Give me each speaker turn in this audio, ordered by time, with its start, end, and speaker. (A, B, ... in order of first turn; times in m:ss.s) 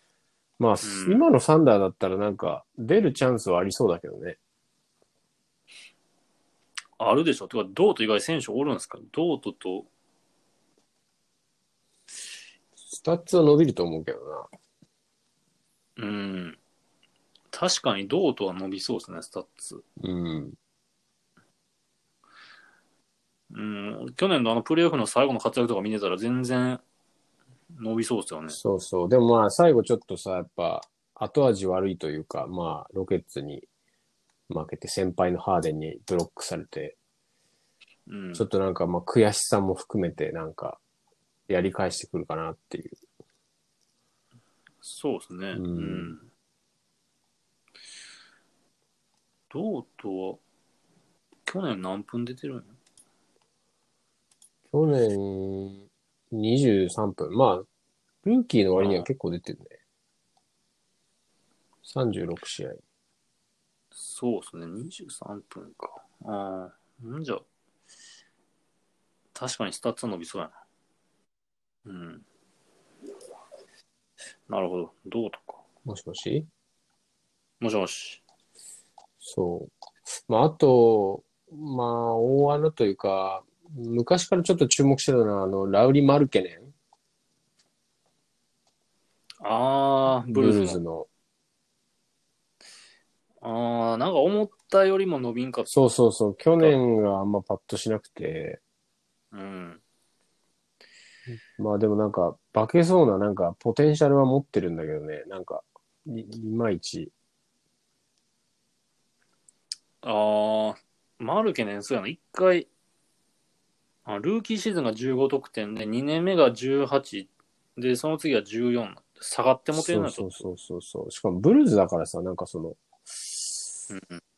0:00.6-0:04.4 A
0:00.8-0:01.2 B
0:07.0-0:09.9 B
0:12.9-0:14.5 A
0:16.0-0:16.6 B
0:17.5-0:19.8 B
0:20.0-0:20.6 A
0:23.5-0:26.8 B
0:27.7-0:28.6 B
0:28.5-0:33.6 A
0:34.5-0:37.0 A
0:38.1-0:38.5 B
0:38.4-0:40.8 A
0:41.5-0:43.0 A
0:44.8-0:46.2 B
0:45.5-0:46.2 A
0:49.5-0:50.4 B
0:51.4-0:52.7 B
0:54.7-0:57.6 A
0:58.2-0:59.8 A
0:58.7-0:59.1 B
1:01.8-1:02.8 A
1:04.0-1:07.4 B
1:09.3-1:10.5 B
1:11.8-1:12.2 B
1:14.5-1:15.6 B
1:15.8-1:16.5 A
1:17.6-1:18.2 B
1:19.2-1:26.7 A
1:29.4-1:30.8 B
1:30.2-1:31.1 A
1:33.4-1:35.7 B
1:35.7-1:38.6 A
1:39.3-1:39.8 B
1:41.5-1:47.1 A
1:50.0-1:52.7 B
1:54.0-2:00.4 B
1:59.7-2:03.3 A
2:03.9-2:04.2 B